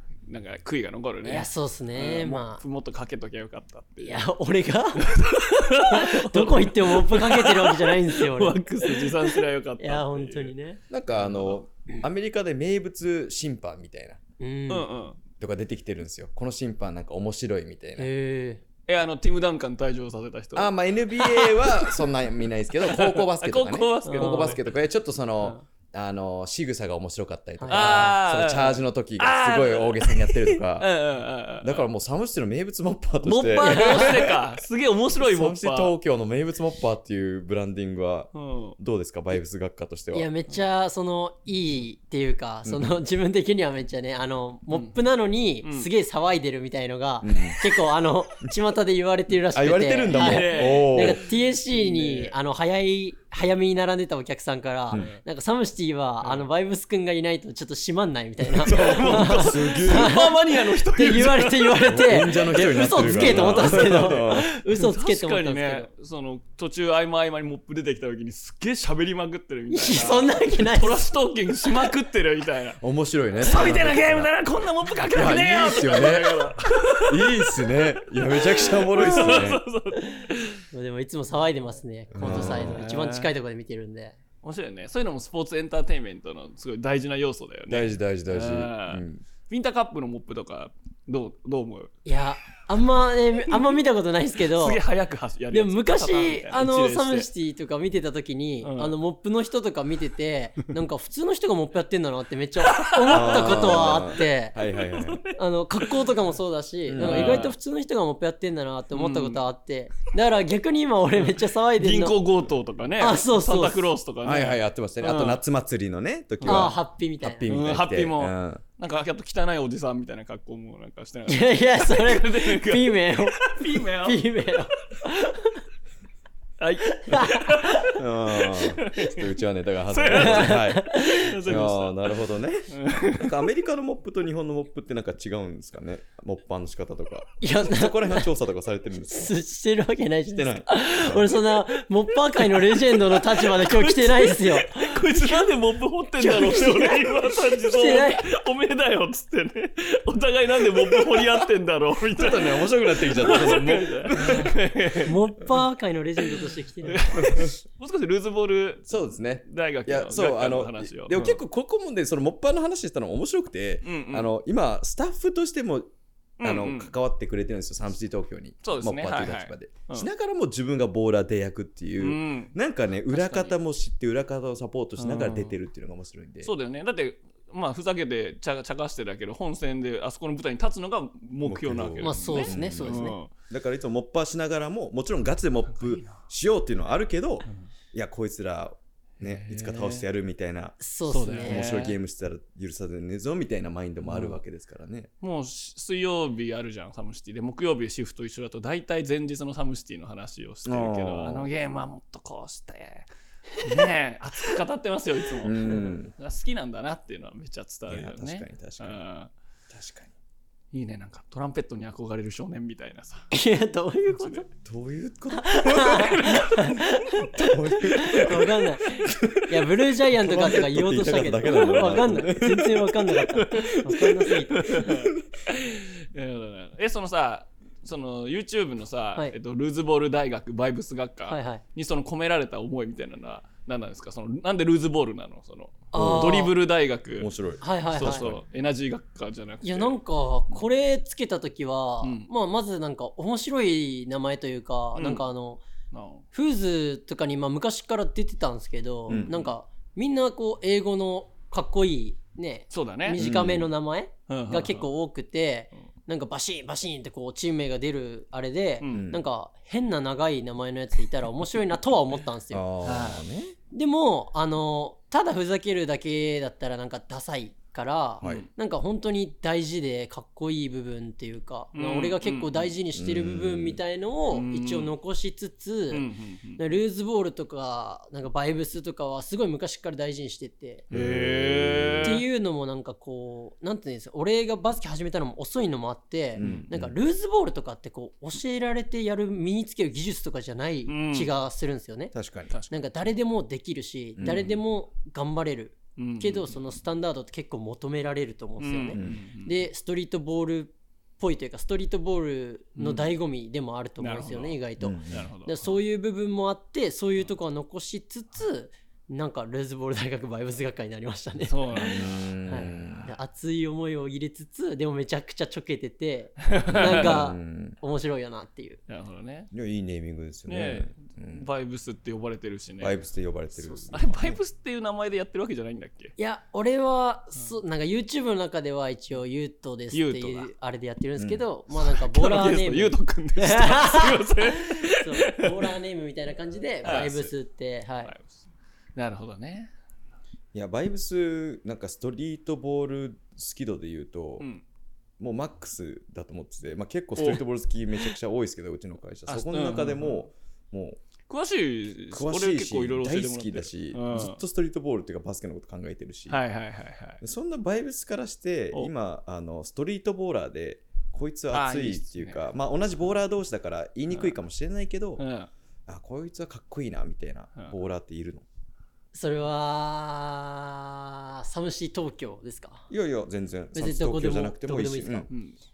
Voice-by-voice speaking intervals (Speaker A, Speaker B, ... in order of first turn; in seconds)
Speaker A: 0.3-4.2, 5.0-10.5, 11.2-11.6, 14.7-15.2, 18.9-22.0, 22.8-24.6, 27.7-31.9, 33.2-35.9, 38.3-38.8, 44.7-45.0, 45.6-45.9, 50.1-52.3, 54.9-55.2, 58.5-61.9, 62.5-72.8, 73.4-80.6, 82.2-83.3, 84.4-92.0, 94.5-97.3, 98.6-99.0, 102.7-104.0, 104.8-106.1, 107.0-107.6, 108.9-109.4, 111.2-115.4, 116.4-116.7, 117.5-124.6, 126.6-129.3, 129.9-132.2, 132.7-133.3, 142.4-155.2, 156.2-161.4, 163.8-164.3, 166.4-166.9, 168.6-170.1, 172.0-172.6, 173.1-173.6, 175.0-175.5, 176.4-183.3, 189.2-190.1, 191.1-191.9, 194.0-194.4, 195.2-209.3, 210.7-213.3, 214.1-214.4, 223.6-237.3, 237.9-239.9, 242.0-242.3, 244.9-245.2, 245.9-246.2, 252.7-253.2, 254.3-254.9, 258.8-259.1, 262.8-263.2, 268.2-268.5, 271.7-272.7, 274.3-274.9, 275.9-276.6, 280.9-282.2, 286.4-286.7, 290.9-291.3, 296.0-296.6, 298.6-299.7, 302.8-303.1, 304.0-305.8, 311.5-312.9, 316.5-317.2, 318.9-319.5, 320.5-322.9, 323.9-326.1, 329.9-330.5, 331.8-335.7, 336.8-337.3, 338.0-338.4, 339.0-339.7, 347.2-347.4, 349.3-350.3, 351.3-354.4, 356.3-357.2, 361.5-362.4, 365.2-365.5, 375.3-375.6
Speaker B: 1.2-2.6, 4.0-5.1, 5.9-10.8, 14.4-14.9, 18.0-18.6, 24.1-24.6, 27.6-28.1, 33.6-34.3, 40.1-65.9, 69.7-71.1, 79.0-79.4, 80.0-84.2, 92.0-94.8, 95.5-104.6, 105.4-112.2, 113.0-113.9, 116.4-117.5, 121.3-125.6, 126.9-128.0, 130.1-131.3, 137.4-138.3, 139.1-145.5, 146.2-148.3, 154.1-157.4, 182.0-183.2, 190.8-191.7, 213.3-214.5, 215.3-224.8, 231.3-231.6, 235.9-236.5, 237.6-238.3, 239.6-245.6, 246.3-262.6, 263.7-276.1, 276.6-280.9, 282.0-292.1, 292.7-318.8, 326.2-338.1, 369.1-372.9, 373.8-375.3
Speaker C: 10.9-14.2, 15.4-18.1, 20.6-30.9, 31.6-34.5, 35.2-40.3, 42.6-43.0, 47.2-47.6, 49.5-51.2, 58.7-60.1, 61.9-64.5, 72.8-74.3, 75.1-79.6, 82.1-82.8, 87.7-89.2, 103.1-105.2, 106.9-107.5, 114.2-118.6, 128.0-139.3, 140.3-141.3, 152.1-154.6, 157.2-157.5, 158.9-165.9, 166.4-176.5, 181.4-195.1, 200.7-201.5, 205.4-206.1, 207.9-209.0, 209.7-210.1, 214.6-223.2, 224.8-225.0, 235.9-236.4, 237.2-238.4, 249.1-249.4, 253.2-253.7, 258.9-259.2, 262.5-263.6, 268.2-268.5, 272.9-273.8, 280.9-282.2, 286.4-286.9, 292.1-292.5, 294.2-294.6, 298.9-299.2, 304.8-305.3, 311.9-313.1, 316.7-317.8, 319.5-321.5, 322.8-324.4, 331.2-331.4, 336.8-337.1, 340.5-344.5, 345.2-351.0, 352.1-356.4, 357.2-365.2, 365.9-368.4, 372.9-375.3